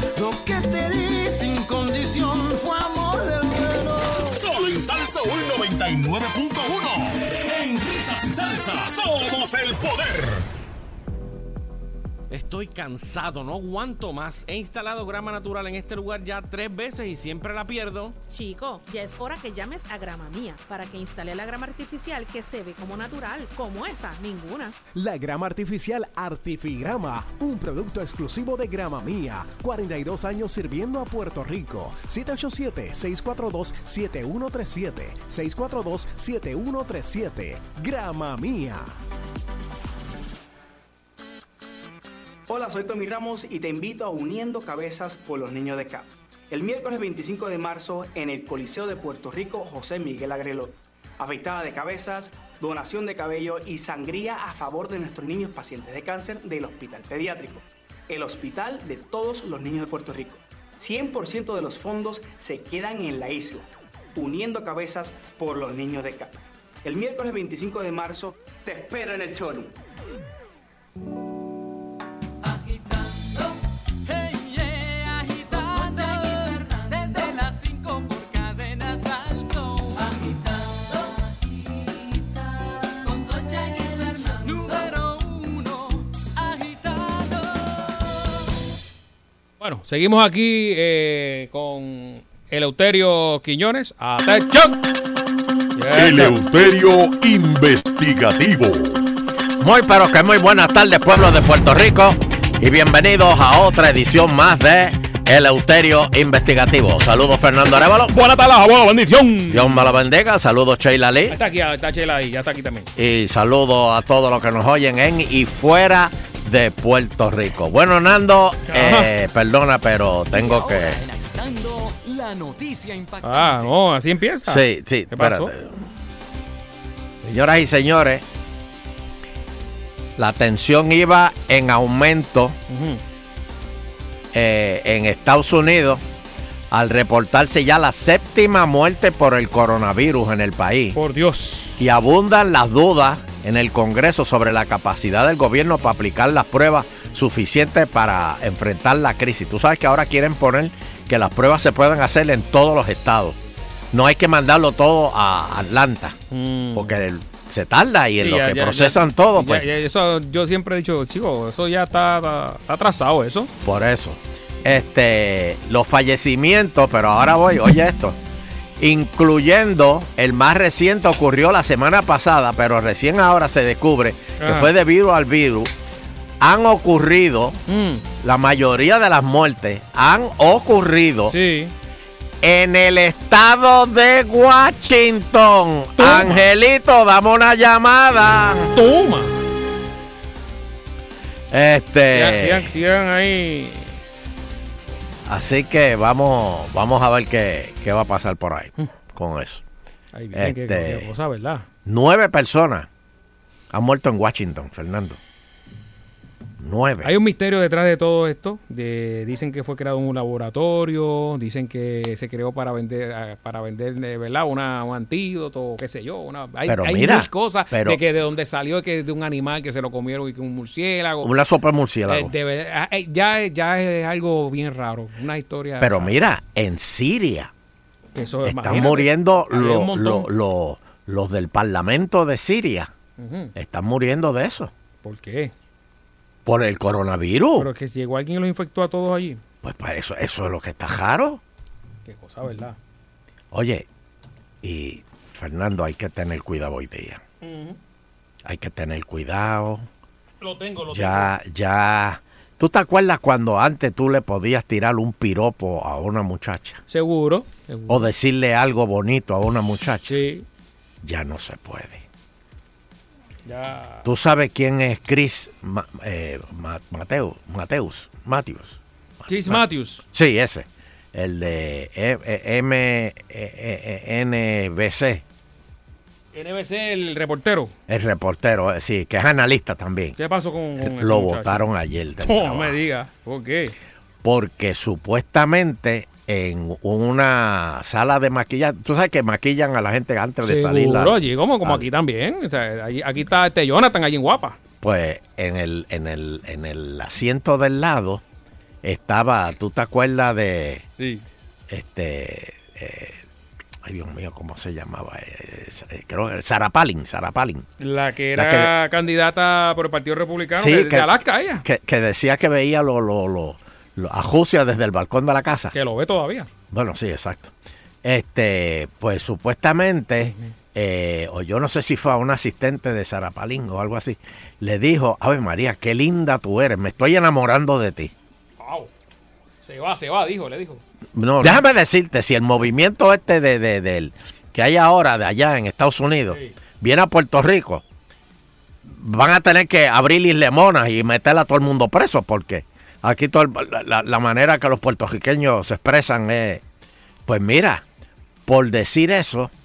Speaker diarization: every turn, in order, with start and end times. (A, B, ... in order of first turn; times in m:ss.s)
0:00.2-0:04.4 A
0:04.3-0:10.4 B
0:12.3-0:18.2 C
0:18.3-0:24.8 D
0:24.9-0:38.9 E
0:42.5-1:09.7 F
1:15.0-1:19.9 G
1:24.5-1:25.1 G
1:29.6-1:34.8 H
1:35.8-1:36.4 H
1:39.6-1:48.1 I
1:48.1-1:49.9 H
1:49.5-1:51.4 I
1:51.3-1:52.9 H
1:53.0-2:01.0 I
1:58.7-1:59.1 H
2:00.4-2:03.2 A
2:03.2-2:05.5 H
2:04.4-2:05.8 I
2:07.2-2:08.2 I
2:10.2-2:12.6 I
2:12.7-2:13.0 H
2:14.3-2:16.0 I
2:16.7-2:21.0 I
2:20.9-2:21.8 H
2:21.8-2:33.4 I
2:33.9-2:36.2 I
2:36.3-2:37.0 H
2:36.7-2:39.6 I
2:38.2-2:43.5 H
2:43.6-2:48.2 I
2:48.8-2:55.7 I
2:54.4-2:54.7 H
2:56.4-2:57.6 I
2:57.7-2:58.0 H
2:58.2-3:01.3 I
3:01.3-3:01.7 H
3:02.4-3:08.7 I
3:06.0-3:06.4 H
3:08.7-3:09.4 H
3:11.5-3:12.7 I
3:12.1-3:14.0 H
3:15.2-3:19.6 I
3:20.1-3:21.7 H
3:20.3-3:21.1 I
3:21.8-3:22.9 I
3:23.7-3:25.2 I
3:26.6-3:27.1 I
3:27.0-3:41.3 H
3:36.6-3:38.0 I
3:41.2-3:42.3 I
3:42.1-3:46.1 H
3:45.8-3:47.5 I
3:48.1-3:50.3 H
3:48.4-3:52.9 I
3:53.2-3:53.5 H
3:53.5-3:54.7 I
3:55.0-3:55.5 H
3:56.4-3:57.7 I
3:57.6-3:59.4 H
3:59.6-4:01.4 I
4:02.0-4:02.8 H
4:03.5-4:03.8 I
4:04.6-4:07.2 I
4:07.4-4:07.8 H
4:08.4-4:09.8 I
4:10.4-4:11.3 H
4:10.9-4:16.8 I
4:16.9-4:18.1 H
4:17.9-4:20.2 I
4:20.0-4:20.4 H
4:21.0-4:22.0 I
4:23.4-4:24.1 H
4:24.0-4:29.6 I
4:29.3-4:30.0 H
4:30.1-4:35.2 I
4:36.3-4:37.7 H
4:37.9-4:40.1 I
4:40.2-4:41.7 H
4:40.8-4:42.8 I
4:42.2-4:43.7 H
4:44.2-4:51.8 I
4:50.4-4:54.6 H
4:54.8-4:58.2 I
4:58.8-5:00.8 I
5:01.0-5:01.2 H
5:01.7-5:03.2 I
5:03.8-5:07.6 I
5:07.8-5:11.6 H
5:08.4-5:08.7 I
5:10.5-5:15.7 I
5:15.7-5:16.5 H
5:16.7-5:17.5 I
5:18.0-5:28.1 I
5:20.2-5:20.5 H
5:28.6-5:28.9 H
5:29.6-5:30.8 H
5:31.1-5:37.8 I
5:36.3-5:36.5 H
5:38.8-5:46.6 I
5:47.3-5:47.8 I
5:48.5-5:49.5 I